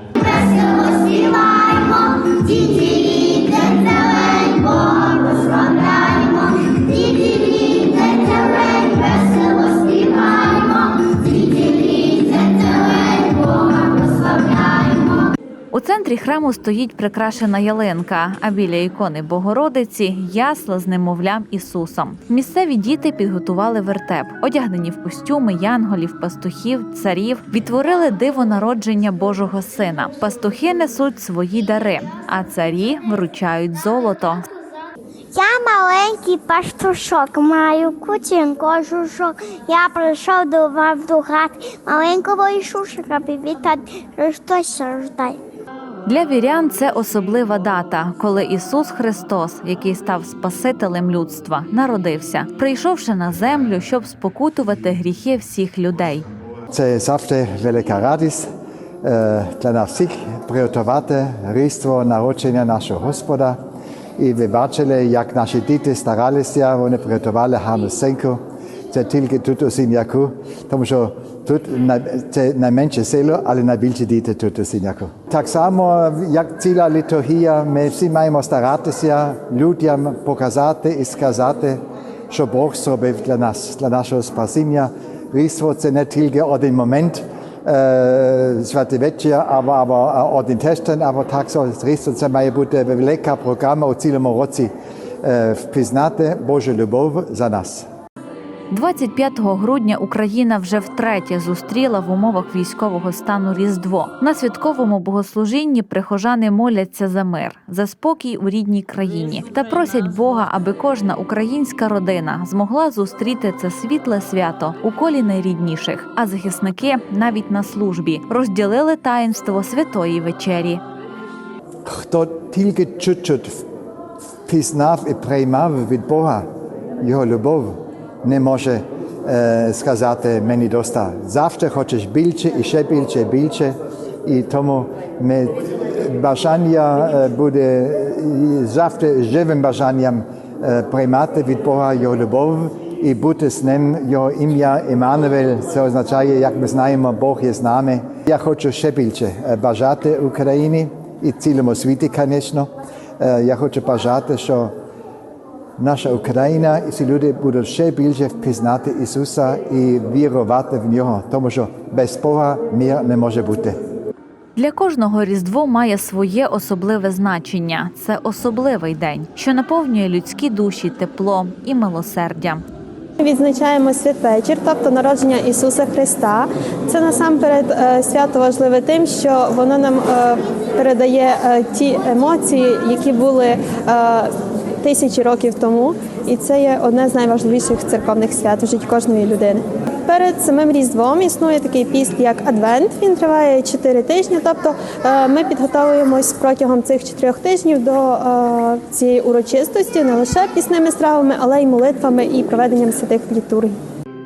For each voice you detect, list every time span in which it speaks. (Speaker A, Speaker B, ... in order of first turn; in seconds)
Speaker A: 0.2-15.2, 35.3-45.4
Speaker B: 15.7-34.4, 46.0-56.2, 98.7-120.8, 164.6-172.6
Speaker C: 56.7-58.5, 59.0-63.6, 64.2-97.9, 121.8-123.6, 124.5-126.4, 127.0-154.7, 155.8-163.8
Speaker D: 173.2-184.3, 184.8-203.7